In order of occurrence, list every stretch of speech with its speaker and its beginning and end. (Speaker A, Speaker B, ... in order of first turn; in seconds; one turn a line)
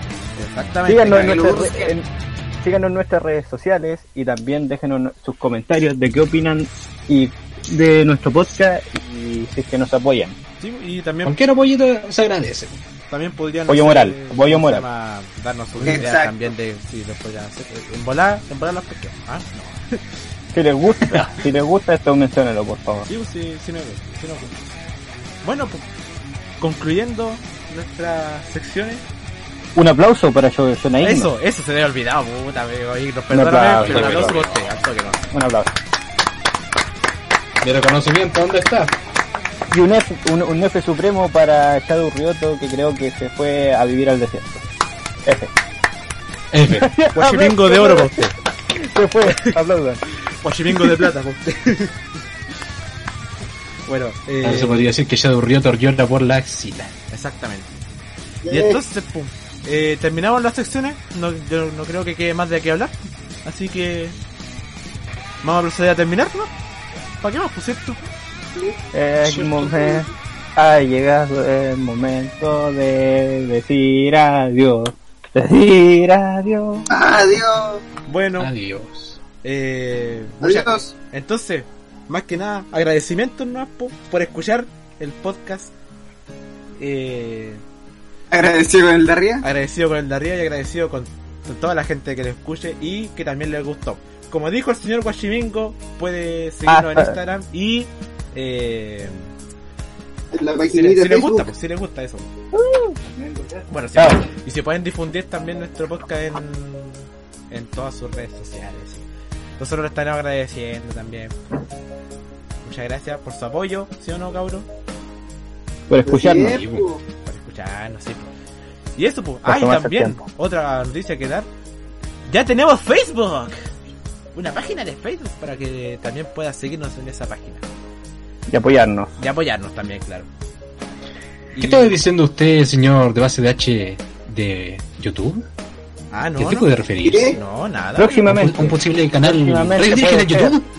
Speaker A: 0.4-1.6
Speaker B: 0.9-2.0
Speaker C: 1.1-1.9
Speaker B: 2.6-10.4
Speaker A: 10.6-11.3
Speaker D: 11.2-12.8
Speaker A: 13.1-20.0
Speaker B: 13.7-14.9
Speaker C: 15.8-16.5
Speaker B: 20.5-23.1
Speaker D: 21.0-21.4
Speaker A: 23.1-24.6
Speaker A: 25.4-25.9
Speaker A: 26.6-29.0
Speaker B: 29.8-31.3
Speaker A: 31.0-35.2
Speaker B: 33.3-34.4
Speaker D: 33.7-34.6
Speaker B: 35.3-35.7
Speaker D: 37.6-38.9
Speaker B: 39.7-44.6
Speaker B: 45.2-45.5
Speaker D: 46.5-46.9
Speaker B: 46.8-50.0
Speaker A: 47.1-48.4
Speaker A: 49.2-49.6
Speaker A: 50.4-52.0
Speaker A: 53.9-54.9
Speaker D: 54.4-56.9
Speaker A: 57.1-57.7
Speaker C: 58.4-58.8
Speaker A: 58.5-64.2
Speaker A: 65.4-66.5
Speaker A: 67.2-68.1
Speaker B: 68.9-76.9
Speaker D: 69.2-70.0
Speaker C: 76.9-77.8
Speaker A: 78.1-78.5
Speaker D: 78.4-79.2
Speaker A: 79.4-85.7
Speaker C: 80.4-80.9
Speaker A: 86.8-87.6
Speaker C: 88.3-89.5
Speaker A: 89.4-99.3
Speaker B: 96.7-97.2
Speaker C: 100.3-101.5
Speaker A: 100.7-102.3
Speaker B: 102.5-104.2
Speaker A: 103.7-109.1
Speaker A: 109.6-111.3
Speaker A: 112.6-114.7
Speaker B: 115.9-116.6
Speaker C: 116.0-117.0
Speaker D: 116.3-116.9
Speaker A: 117.3-118.3
Speaker A: 119.0-121.5
Speaker B: 119.5-120.2
Speaker A: 122.3-123.7
Speaker A: 124.3-127.7
Speaker B: 128.5-129.1
Speaker A: 129.2-130.3
Speaker A: 131.5-132.0
Speaker D: 131.6-135.4
Speaker A: 136.1-136.7
Speaker D: 136.4-137.4
Speaker C: 137.0-137.4
Speaker A: 137.3-138.3
Speaker B: 138.0-140.5
Speaker D: 138.3-140.7